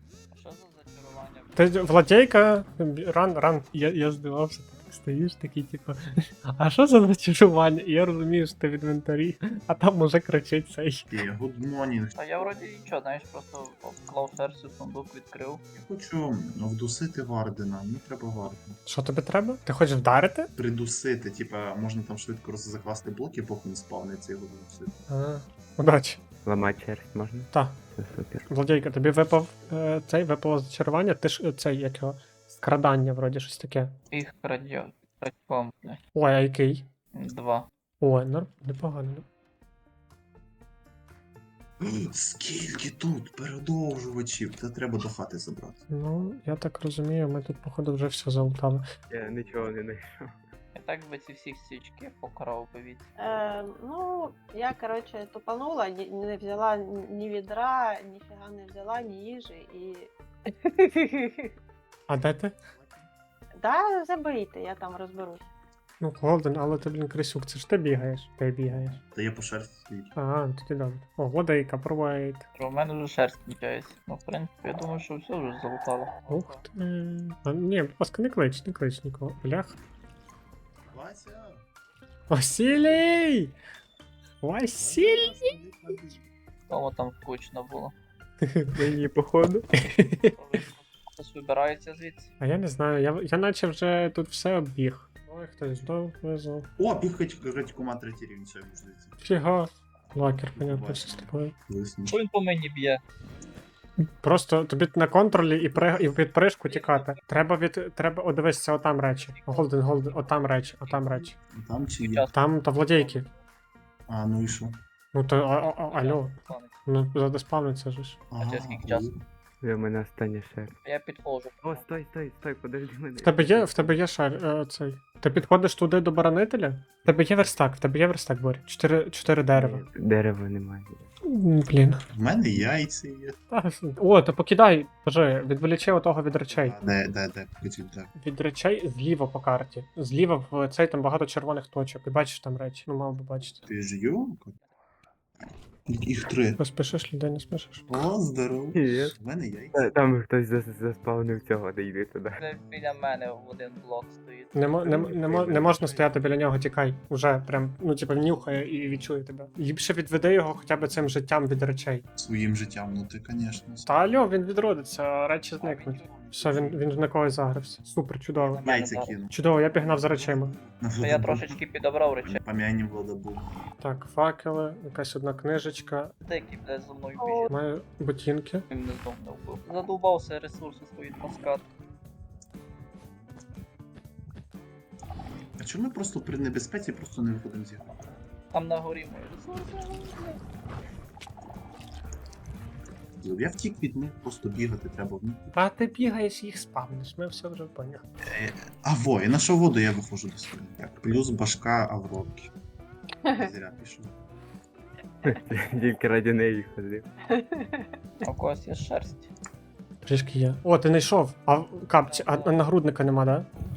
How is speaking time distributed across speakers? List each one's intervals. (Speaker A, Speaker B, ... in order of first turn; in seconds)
Speaker A: 0.3-1.9, 12.2-15.6, 34.1-36.0, 37.1-37.7, 50.7-53.1, 72.6-76.6, 86.7-87.9, 90.3-92.3, 102.1-103.0, 106.7-107.2, 109.1-111.3, 112.0-112.4, 113.0-113.2, 115.9-116.8, 118.4-119.1, 120.8-121.9, 152.4-154.5, 165.6-166.1, 168.3-169.2, 171.0-172.4, 176.2-177.5, 178.7-181.7, 188.5-190.4, 208.2-209.3, 212.1-212.7
Speaker B: 1.6-11.1, 18.9-20.5, 25.1-26.2, 27.5-27.8, 28.5-34.0, 36.1-36.9, 38.0-39.3, 45.9-48.9, 62.1-62.6, 66.0-69.0, 70.2-72.5, 76.3-79.8, 82.3-83.5, 84.4-85.5, 88.4-88.8, 89.8-90.3, 92.4-96.7, 99.2-101.5, 104.0-111.4, 112.3-113.3, 115.1-118.2, 123.2-129.8, 131.3-132.0, 133.5-136.8, 138.2-143.6, 146.6-147.9, 154.5-162.1, 163.9-168.6, 169.3-170.6, 173.8-176.1, 177.5-178.7, 195.5-198.1, 210.0-213.5
Speaker C: 11.1-12.2, 15.8-18.8, 20.6-25.0, 41.8-45.8, 62.8-63.1, 68.7-70.1, 80.9-81.6, 82.7-83.0, 84.8-86.2, 96.8-99.2, 100.5-102.2, 111.5-112.3, 114.1-114.8, 118.3-119.2, 132.1-133.4, 136.5-138.1, 143.7-144.6, 145.9-146.6, 147.9-149.8, 154.8-156.2, 162.2-164.1, 166.1-166.8, 168.6-171.6, 172.2-173.5, 185.6-188.0, 193.2-195.5, 198.3-202.5, 203.3-204.2
Speaker D: 26.5-28.4, 49.1-50.4, 88.8-89.7, 119.6-120.8, 121.6-124.0, 129.5-131.1, 148.7-149.1, 149.7-152.4, 205.2-207.1
Speaker E: 53.2-61.5, 63.6-65.4, 177.2-177.5, 207.3-207.9